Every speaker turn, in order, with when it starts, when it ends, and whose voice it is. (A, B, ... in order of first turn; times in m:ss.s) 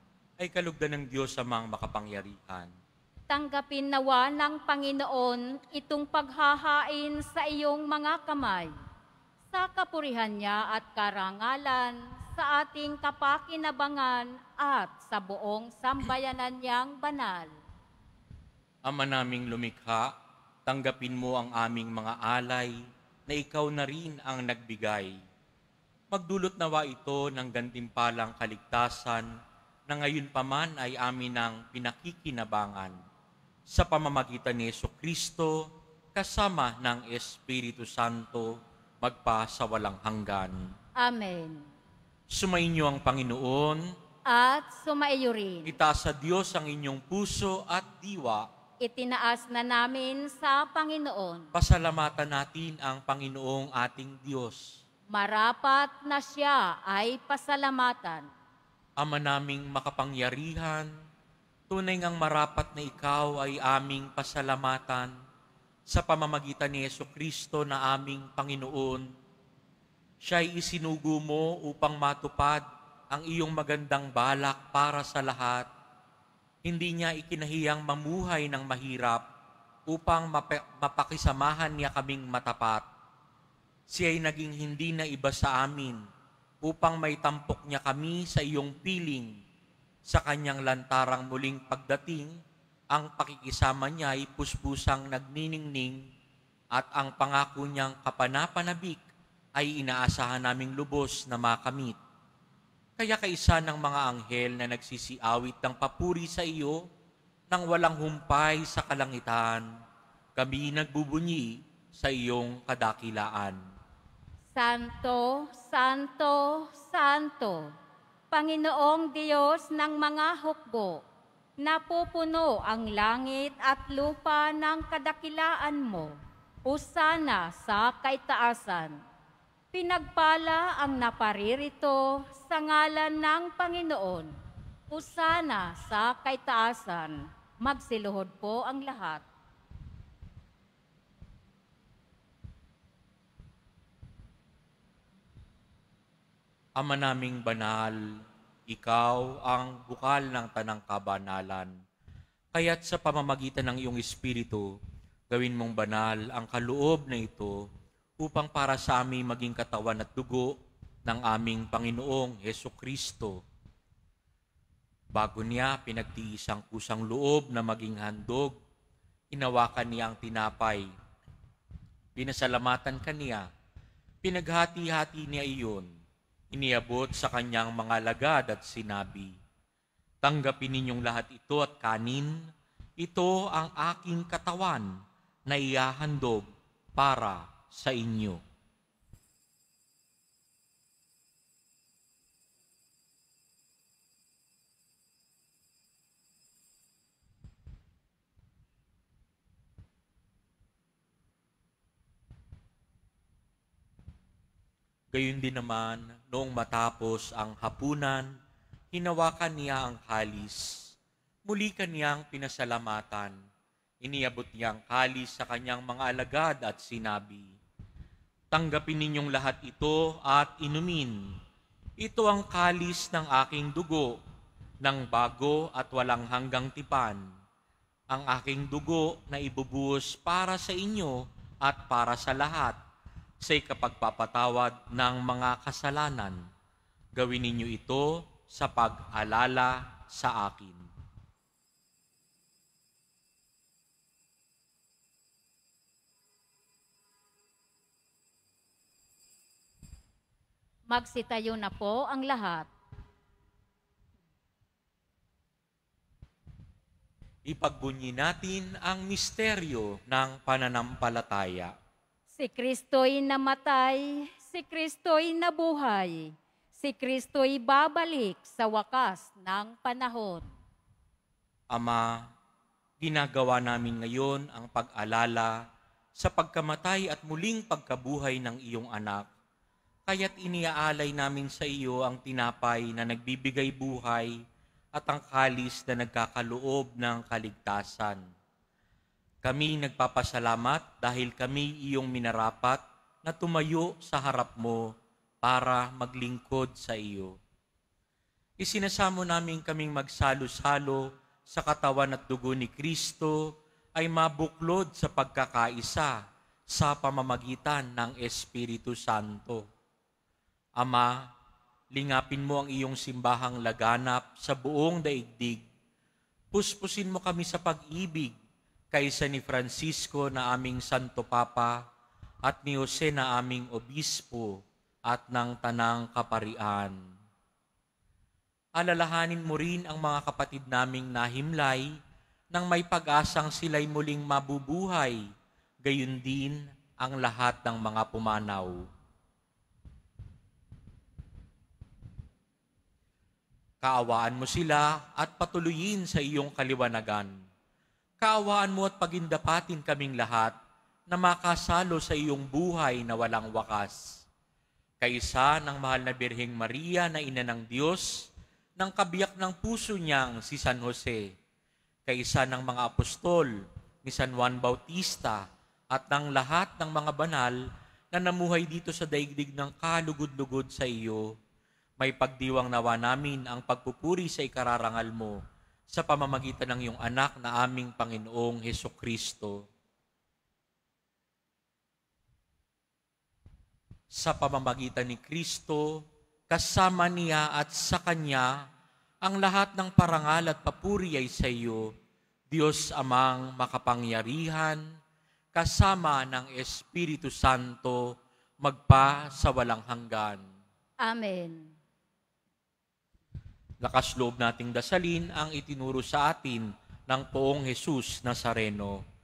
0:00.4-0:02.7 A
0:03.3-0:08.7 B
0:09.5-0:17.5 B
0:18.8-0:20.1 A
0:20.7-0:22.8 A
0:23.3-0:25.2 A
0:26.1-0:29.3 A
0:29.9-0:33.0 A
0:33.7-0:40.6 A
0:41.0-0:41.7 B
0:42.3-0:43.9 A
0:44.3-0:45.8 B
0:45.7-0:48.5 A
0:48.8-0:51.5 B
0:51.5-0:54.8 A
0:55.1-0:58.3 B
0:59.0-1:00.9 A
1:01.7-1:05.1 A
1:05.9-1:09.1 A
1:10.2-1:15.7 A
1:16.6-1:19.2 A
1:19.9-1:22.8 A
1:23.9-1:26.0 A
1:26.6-1:29.4 A
1:30.1-1:32.4 A
1:32.9-1:36.0 A
1:36.7-1:39.0 A
1:39.6-1:42.0 A
1:43.0-1:46.8 A
1:47.5-1:49.7 A
1:50.4-1:53.6 A
1:54.6-1:57.7 B
1:58.3-2:01.0 B
2:01.6-2:06.1 B
2:06.6-2:09.0 B
2:09.7-2:14.3 B
2:14.9-2:19.2 B
2:26.8-2:28.0 A
2:28.7-2:31.7 A
2:32.5-2:34.7 A
2:35.3-2:37.6 A
2:38.2-2:43.4 A
2:45.1-2:48.6 A
2:49.3-2:50.9 A
2:52.2-2:53.5 A
2:54.2-2:55.9 A
2:56.5-2:59.3 A
3:00.2-3:02.4 A
3:03.0-3:04.9 A
3:05.5-3:08.4 A
3:25.1-3:28.3 A
3:28.9-3:30.9 A
3:31.5-3:33.4 A
3:34.0-3:37.5 A
3:38.5-3:41.2 A
3:42.0-3:44.2 A
3:44.8-3:47.2 A
3:48.1-3:52.8 A
3:53.4-3:56.4 A
3:57.2-4:00.9 A
4:10.9-4:12.7 B
4:17.4-4:21.7 A
4:22.4-4:30.5 B
4:31.7-4:32.2 A
4:33.0-4:35.6 A
4:36.2-4:39.3 A
4:40.1-4:44.4 A
4:45.0-4:48.2 A
4:49.4-4:54.9 A
4:55.4-4:57.4 A
4:58.6-5:06.2 A
5:06.7-5:09.6 A
5:10.8-5:11.2 A
5:11.9-5:15.6 A
5:16.5-5:18.3 A
5:18.9-5:21.8 A
5:22.4-5:27.0 A
5:28.8-5:31.9 A
5:32.5-5:35.2 A
5:35.8-5:38.8 A
5:43.8-5:47.3 A
5:48.2-5:50.6 A
5:51.1-5:54.2 A
5:55.0-6:01.3 A
6:02.1-6:03.5 A
6:04.0-6:07.6 A
6:08.1-6:11.3 A
6:12.0-6:19.6 A
6:24.1-6:28.6 A
6:29.2-6:31.9 A
6:32.5-6:34.8 A
6:35.5-6:40.4 A
6:41.0-6:41.7 B
6:43.8-6:49.0 A